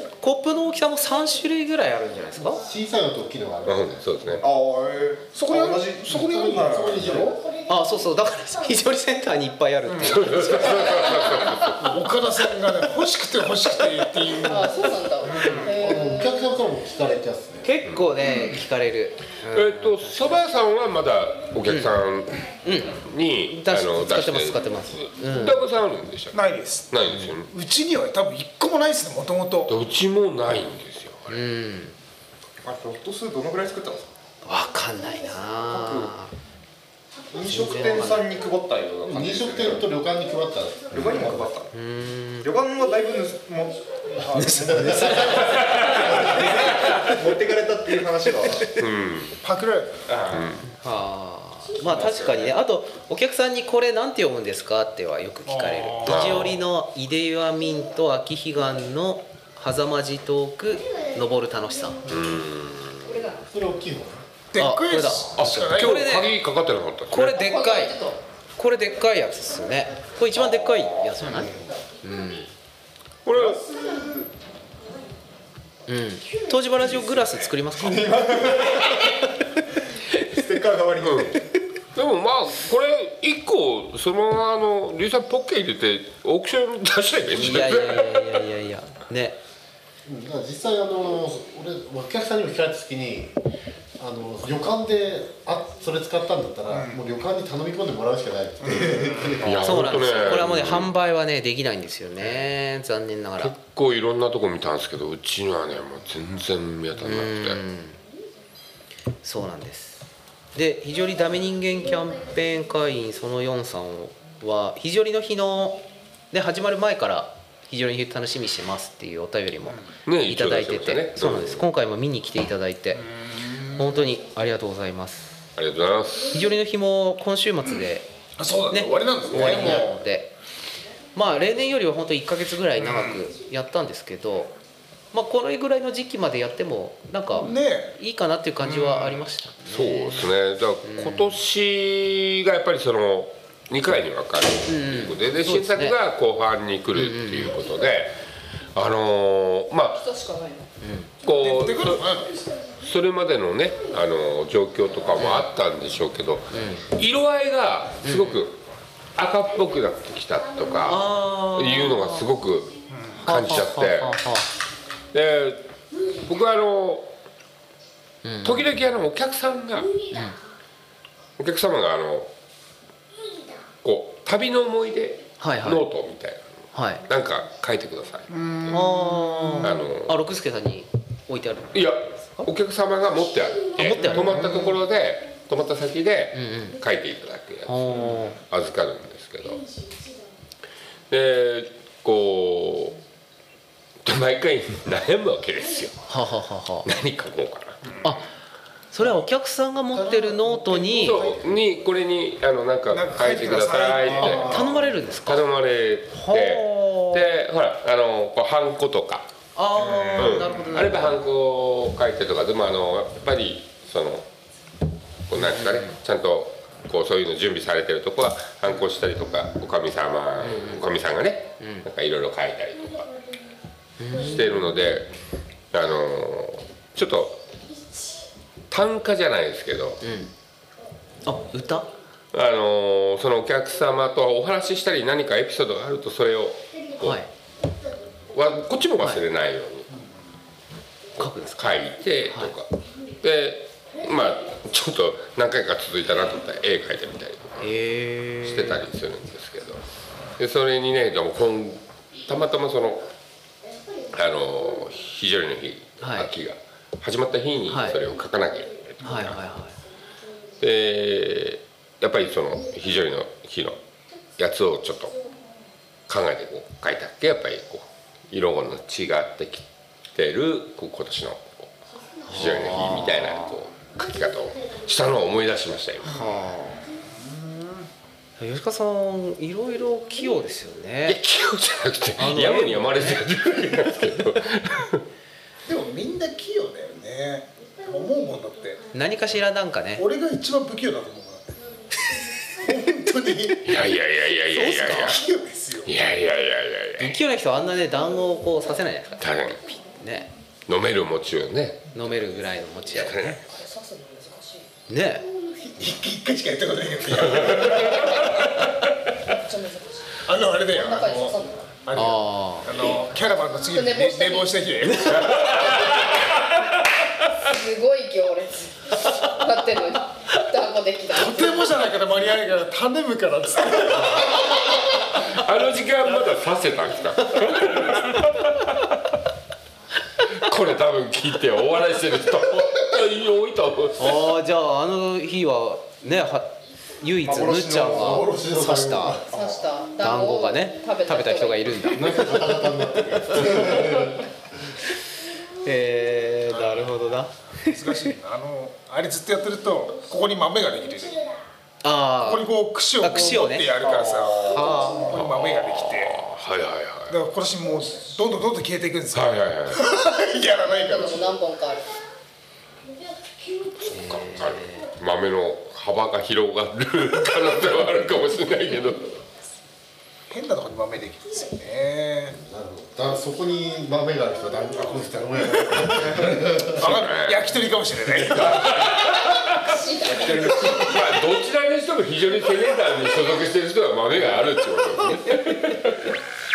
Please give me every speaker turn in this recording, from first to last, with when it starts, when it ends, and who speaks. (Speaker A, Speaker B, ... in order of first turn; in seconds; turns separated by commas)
Speaker A: 0.2-2.6, Speaker B: 2.6-3.9, Speaker C: 3.6-4.5, Speaker D: 4.4-7.4, Speaker E: 5.3-6.5, Speaker B: 6.1-7.5, Speaker A: 7.7-11.7, Speaker E: 9.8-10.2, Speaker C: 10.0-11.9, Speaker E: 11.7-15.7, Speaker F: 14.4-16.5, Speaker B: 15.4-17.7, Speaker A: 17.6-20.2, Speaker C: 17.8-18.1, Speaker C: 19.5-27.5, Speaker A: 21.6-22.0, Speaker A: 22.6-25.6, Speaker E: 26.3-29.7, Speaker C: 29.7-31.4, Speaker A: 31.3-31.9, Speaker D: 32.6-34.1, Speaker A: 34.4-36.3, Speaker D: 35.7-36.1, Speaker D: 37.3-39.9, Speaker A: 37.4-38.4, Speaker B: 39.0-41.4, Speaker C: 40.9-41.4, Speaker D: 40.9-41.7, Speaker A: 41.7-42.5, Speaker D: 42.4-48.7, Speaker A: 44.3-45.4, Speaker B: 44.4-46.6, Speaker C: 48.7-49.4, Speaker E: 49.4-50.0, Speaker D: 50.1-50.5, Speaker C: 50.3-50.7, Speaker A: 50.7-62.0, Speaker D: 51.8-52.5, Speaker E: 55.5-56.4, Speaker C: 56.0-56.6, Speaker C: 62.1-63.2, Speaker F: 63.1-63.4, Speaker B: 63.4-64.2, Speaker E: 64.5-66.2, Speaker A: 64.6-66.3, Speaker C: 65.4-67.4, Speaker A: 67.1-68.0, Speaker F: 67.3-68.2, Speaker A: 68.5-72.5, Speaker C: 70.3-71.0, Speaker C: 73.2-73.6, Speaker D: 73.3-74.2, Speaker A: 75.9-79.0, Speaker D: 77.0-79.0, Speaker D: 80.1-81.4, Speaker C: 81.0-81.4, Speaker C: 81.9-88.4, Speaker A: 87.3-89.4, Speaker B: 90.0-93.4, Speaker B: 94.0-99.8, Speaker E: 96.7-97.0, Speaker E: 98.6-99.5, Speaker C: 99.4-100.9, Speaker A: 99.6-103.6, Speaker C: 103.4-107.6, Speaker A: 107.0-108.0, Speaker A: 109.2-123.1, Speaker C: 120.0-121.7, Speaker E: 123.2-123.8, Speaker A: 123.7-125.4, Speaker C: 125.5-126.4, Speaker A: 126.3-128.1, Speaker E: 128.4-129.9, Speaker A: 128.7-130.3, Speaker B: 129.4-129.8, Speaker A: 131.1-134.6, Speaker E: 132.8-133.2, Speaker A: 135.1-140.3, Speaker E: 137.4-137.9, Speaker E: 138.6-139.3, Speaker C: 139.7-148.2, Speaker A: 140.8-141.4, Speaker A: 144.7-146.0, Speaker A: 146.9-147.5, Speaker C: 148.7-150.1, Speaker F: 149.9-150.7, Speaker A: 150.8-151.1, Speaker C: 151.2-152.1, Speaker E: 151.3-152.3, Speaker C: 152.7-158.6, Speaker A: 155.2-155.4, Speaker A: 156.5-156.9, Speaker A: 158.0-158.4, Speaker C: 159.1-164.1, Speaker A: 160.8-162.3, Speaker E: 162.9-163.2, Speaker A: 163.2-164.5, Speaker C: 165.1-165.7, Speaker C: 166.2-167.1, Speaker A: 168.2-168.7, Speaker C: 168.4-170.3, Speaker A: 170.1-170.4, Speaker C: 171.4-172.3, Speaker C: 173.8-176.5, Speaker A: 175.4-175.8, Speaker A: 176.7-177.0, Speaker C: 177.0-178.8, Speaker E: 178.3-179.7, Speaker A: 178.7-182.5, Speaker C: 179.6-180.2, Speaker C: 181.7-189.7, Speaker A: 183.8-184.6, Speaker A: 186.3-186.8, Speaker A: 187.7-188.4, Speaker C: 191.1-193.0, Speaker C: 194.0-196.1, Speaker A: 196.1-196.9, Speaker C: 196.8-197.9, Speaker A: 198.0-198.3, Speaker A: 198.9-201.3, Speaker B: 199.9-201.9, Speaker C: 200.9-209.3, Speaker E: 202.9-204.5, Speaker B: 203.9-204.9, Speaker A: 204.3-205.4, Speaker A: 206.1-207.3, Speaker A: 209.5-211.2, Speaker D: 209.8-210.8, Speaker C: 210.1-214.3, Speaker C: 215.3-223.1, Speaker A: 215.3-215.9, Speaker A: 220.4-220.8, Speaker A: 221.6-221.8, Speaker A: 224.0-224.7, Speaker C: 224.1-225.1, Speaker C: 225.7-227.4, Speaker C: 228.7-230.0, Speaker A: 230.0-230.3, Speaker A: 231.2-231.9, Speaker C: 232.3-237.2, Speaker A: 237.0-237.3, Speaker C: 238.3-239.9, Speaker A: 239.0-239.2, Speaker A: 241.2-241.7, Speaker C: 241.2-242.7, Speaker C: 243.2-247.7, Speaker A: 247.6-248.8, Speaker C: 248.4-249.8, Speaker C: 250.4-253.1, Speaker C: 254.1-259.5, Speaker A: 256.0-256.3, Speaker A: 257.7-258.0, Speaker A: 259.0-259.8, Speaker C: 260.6-263.8, Speaker C: 264.4-265.1, Speaker C: 266.1-271.7, Speaker A: 272.2-273.5, Speaker C: 272.2-276.2, Speaker A: 276.0-276.8, Speaker E: 277.2-277.9, Speaker A: 278.4-281.2, Speaker C: 281.1-285.0, Speaker A: 282.2-283.2, Speaker E: 285.6-288.8, Speaker A: 288.9-290.0, Speaker E: 289.9-291.6, Speaker E: 292.6-293.7, Speaker C: 293.6-295.2, Speaker A: 294.5-295.2, Speaker E: 294.7-295.9, Speaker C: 295.8-297.2, Speaker A: 297.0-300.3, Speaker C: 299.2-299.6, Speaker C: 300.7-301.9, Speaker A: 301.9-303.4, Speaker C: 302.9-303.4, Speaker F: 303.4-304.7, Speaker A: 304.9-305.3, Speaker E: 305.6-308.7, Speaker F: 309.3-311.7, Speaker E: 310.2-315.7, Speaker A: 311.9-312.8, Speaker F: 313.6-314.6, Speaker C: 315.1-316.0, Speaker F: 317.4-321.7, Speaker E: 321.1-324.4, Speaker C: 325.0-328.9, Speaker C: 330.2-334.3, Speaker A: 334.0-339.2, Speaker D: 337.2-338.2, Speaker B: 337.9-339.4, Speaker F: 339.3-341.8, Speaker D: 339.3-339.6, Speaker A: 340.0-344.1, Speaker B: 341.8-344.3, Speaker A: 345.6-348.0, Speaker E: 346.5-351.2, Speaker A: 351.8-353.7, Speaker E: 352.2-356.1, Speaker D: 353.8-354.9, Speaker A: 354.4-355.2, Speaker C: 354.9-357.2, Speaker E: 357.1-361.3, Speaker C: 359.1-359.8, Speaker F: 360.4-361.9, Speaker C: 363.8-369.1, Speaker A: 363.9-364.9, Speaker E: 370.3-372.4, Speaker B: 372.3-376.8, Speaker E: 376.7-378.9, Speaker C: 376.8-377.6, Speaker C: 378.2-379.8, Speaker F: 379.2-380.9, Speaker D: 380.0-381.0, Speaker C: 380.4-386.1